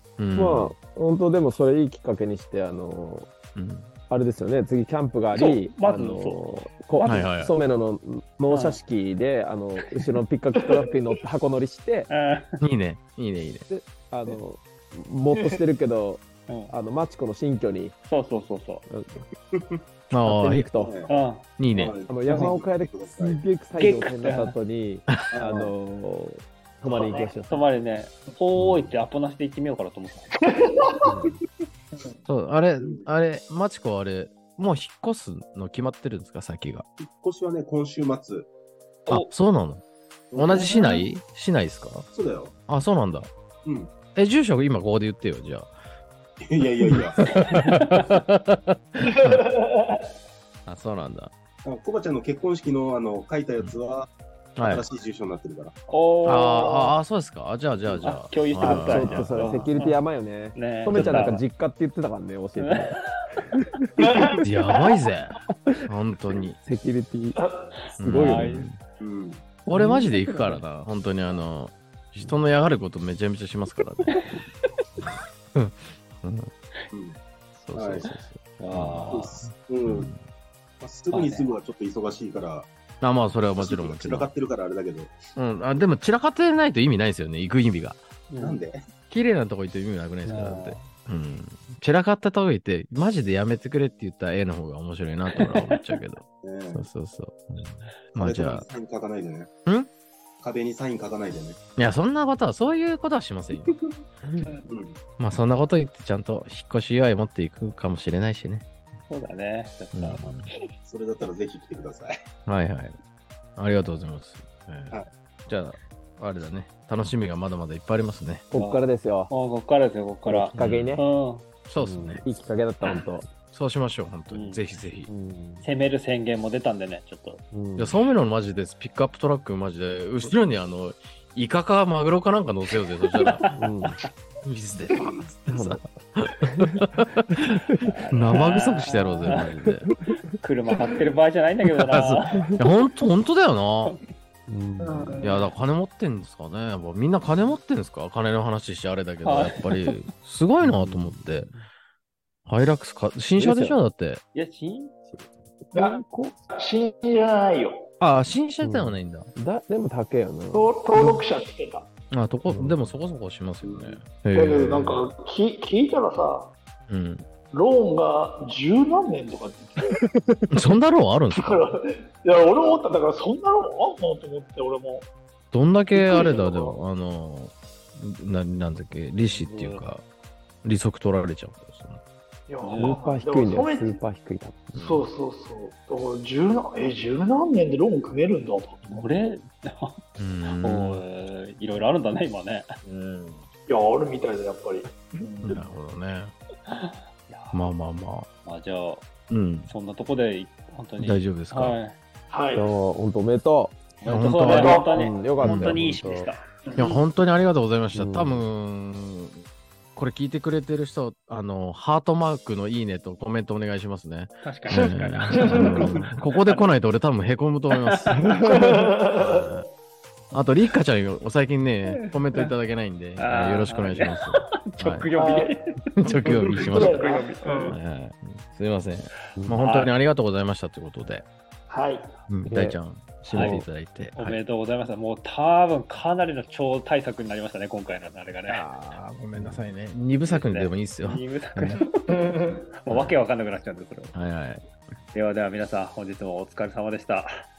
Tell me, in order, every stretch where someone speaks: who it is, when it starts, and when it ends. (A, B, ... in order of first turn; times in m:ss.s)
0:00.2-0:00.7 A
0:00.3-0:03.3 B
0:03.5-0:03.9 A
0:04.1-0:12.1 B
0:05.3-0:06.7 C
0:07.0-0:07.6 A
0:08.5-0:08.8 C
0:12.1-0:12.6 C
0:12.6-0:13.6 A
0:13.7-0:18.0 B
0:15.3-0:15.6 D
0:16.5-0:16.7 C
0:18.1-0:18.8 C
0:18.9-0:19.2 B
0:19.5-0:19.8 E
0:20.1-0:20.7 A
0:20.1-0:20.9 B
0:20.8-0:21.2 E
0:21.1-0:21.4 C
0:21.6-0:22.0 A
0:21.7-0:23.4 E
0:22.1-0:27.6 B
0:23.8-0:24.6 C
0:25.3-0:25.7 E
0:26.9-0:27.4 D
0:27.0-0:30.5 C
0:28.6-0:28.8 A
0:30.4-0:31.1 D
0:31.0-0:31.4 B
0:31.9-0:32.2 D
0:32.3-0:36.8 A
0:32.8-0:33.0 E
0:37.0-0:38.5 E
0:39.1-0:42.0 A
0:40.3-0:40.8 E
0:42.1-0:42.5 E
0:42.7-0:43.3 A
0:43.6-0:43.9 E
0:44.1-0:45.7 A
0:46.4-0:47.4 E
0:46.9-0:49.5 A
0:47.2-0:48.0 C
0:49.1-0:50.0 D
0:50.6-0:51.3 A
0:51.6-0:55.7 E
0:54.6-0:54.8 A
0:55.9-0:57.0 C
0:56.2-0:59.4 A
0:58.0-1:00.0 C
0:58.6-1:03.0 B
1:00.5-1:01.4 C
1:00.9-1:01.2 A
1:02.6-1:03.2 C
1:03.5-1:04.2 B
1:04.0-1:05.0 D
1:04.4-1:06.6 A
1:06.6-1:07.4 B
1:07.3-1:07.7 D
1:08.0-1:08.6 B
1:08.0-1:08.8 A
1:08.1-1:08.7 C
1:09.0-1:09.6 E
1:09.7-1:14.2 A
1:09.7-1:10.0 B
1:09.7-1:10.6 C
1:14.1-1:14.7 C
1:15.0-1:16.5 A
1:16.9-1:17.2 E
1:17.6-1:20.2 A
1:17.7-1:18.1 E
1:18.6-1:19.4 C
1:19.1-1:20.1 E
1:20.8-1:22.7 E
1:21.1-1:21.5 C
1:23.0-1:24.3 A
1:23.6-1:25.2 E
1:25.4-1:28.0 A
1:28.3-1:28.6 C
1:28.4-1:28.8 E
1:29.1-1:38.6 A
1:30.2-1:30.9 C
1:35.3-1:36.0 C
1:36.4-1:36.9 E
1:38.2-1:39.5 E
1:40.4-1:41.6 E
1:41.8-1:43.7 A
1:44.7-1:45.0 E
1:45.2-1:48.6 A
1:49.1-1:50.7 C
1:49.9-1:50.5 A
1:50.8-1:52.1 E
1:52.4-1:53.0 A
1:53.6-1:54.9 A
1:55.4-1:58.4 A
1:58.5-1:59.3 B
1:58.5-2:01.4 C
2:00.2-2:01.0 B
2:00.6-2:01.0 A
2:01.7-2:02.4 A
2:01.8-2:03.3 B
2:02.8-2:03.1 C
2:03.5-2:05.1 A
2:04.3-2:04.6 C
2:05.1-2:05.7 B
2:05.6-2:07.4 C
2:07.5-2:08.0 B
2:07.8-2:13.4 A
2:13.0-2:14.1 C
2:13.5-2:14.0 B
2:14.4-2:19.9 A
2:15.0-2:15.2 E
2:15.5-2:15.8 B
2:16.4-2:17.9 B
2:17.8-2:19.4 C
2:19.6-2:20.3 B
2:20.4-2:22.6 C
2:21.8-2:24.0 A
2:24.5-2:25.2 B
2:24.8-2:25.5 D
2:25.2-2:31.5 A
2:29.2-2:30.0 C
2:30.6-2:31.6 B
2:32.4-2:34.2 A
2:33.4-2:33.8 B
2:34.3-2:34.9 C
2:35.1-2:36.4 B
2:35.7-2:36.0 D
2:36.5-2:37.9 D
2:38.0-2:39.3 A
2:38.6-2:41.2 B
2:40.5-2:41.9 D
2:42.1-2:45.0 A
2:42.5-2:42.8 B
2:43.6-2:44.0 E
2:44.3-2:46.5 D
2:46.9-2:47.3 A
2:47.5-2:50.0 D
2:50.1-2:50.5 B
2:50.5-2:51.6 A
2:51.3-2:55.1 D
2:55.5-3:00.0 A
2:55.9-2:56.8 D
2:59.2-2:59.8 C
3:00.6-3:02.0 A
3:02.5-3:04.0 D
3:02.6-3:03.0 C
3:02.8-3:04.8 B
3:04.7-3:05.0 A
3:04.7-3:09.1 D
3:08.8-3:12.8 C
3:10.2-3:11.0 A
3:12.9-3:13.4 A
3:13.7-3:15.7 D
3:15.4-3:16.3 A
3:16.7-3:17.6 C
3:17.5-3:18.3 A
3:18.4-3:19.0 C
3:19.3-3:19.7 A
3:19.7-3:22.0 C
3:21.0-3:21.8 A
3:22.3-3:22.7 D
3:22.5-3:23.7 B
3:24.0-3:26.8 C
3:24.1-3:24.8 A
3:24.5-3:25.2 D
3:24.9-3:26.3 B
3:25.4-3:25.9 A
3:26.6-3:27.0 D
3:26.8-3:29.4 A
3:27.9-3:28.5 B
3:29.9-3:38.5 A
3:34.4-3:36.6 C
3:35.3-3:35.9 D
3:37.7-3:38.4 C
3:38.2-3:38.9 B
3:38.4-3:39.6 D
3:39.1-3:39.7 A
3:40.3-3:45.1 A
3:41.9-3:42.5 C
3:43.2-3:45.8 C
3:45.1-3:45.8 D
3:46.0-3:47.1 A
3:46.4-3:47.8 D
3:46.5-3:47.8 C
3:47.6-3:51.2 A
3:49.3-3:49.6 B
3:51.7-3:52.2 D
3:52.3-3:54.4 A
3:52.4-3:53.7 B
3:53.3-3:53.6 C
3:54.1-3:58.6 C
3:58.5-4:01.8 A
3:59.4-3:59.6 B
4:00.2-4:04.1 C
4:02.1-4:02.6 D
4:02.9-4:03.2 A
4:04.1-4:04.7 A
4:05.1-4:07.4 C